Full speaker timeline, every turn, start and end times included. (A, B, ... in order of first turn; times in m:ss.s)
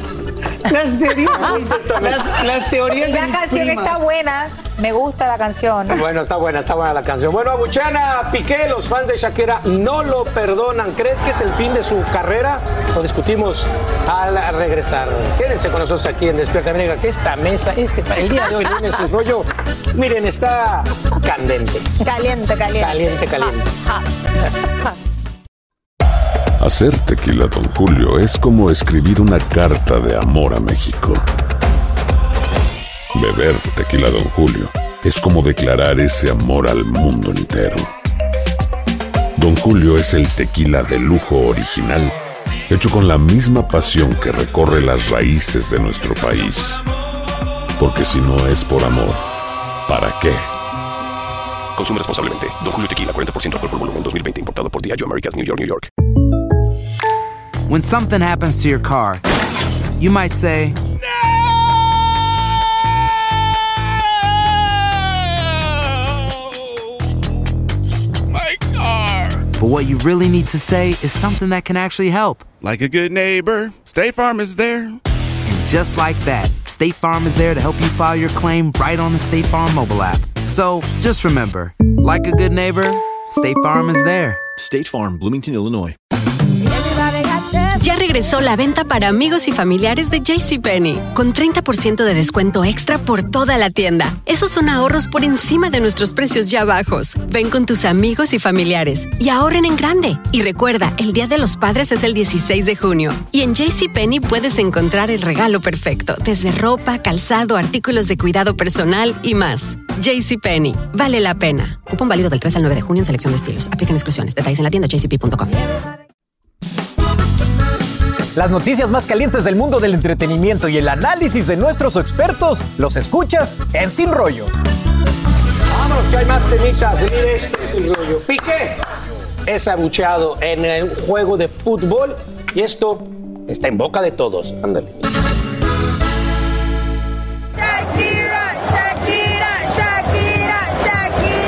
0:00.7-0:04.0 A
0:01.3-0:02.4 B
0:02.9-0:06.0 C
0:05.9-0:21.9 B
0:22.0-0:24.0 D
0:22.8-0:23.7 B
0:26.6-0:31.2 E
0:33.1-0:37.9 E
0:39.4-0:42.1 E
0:42.7-0:46.8 E
0:47.8-0:49.2 E
0:49.9-0:50.5 E
0:51.8-0:55.9 F
0:57.7-0:59.3 G
1:00.0-1:00.8 G
1:09.6-1:12.5 G
1:12.6-1:14.9 H
1:12.9-1:13.7 I
1:15.5-1:24.5 G
1:24.6-1:25.9 I
1:27.7-1:55.5 J
1:58.4-2:04.5 K
2:05.7-2:08.8 B
2:09.5-2:15.3 B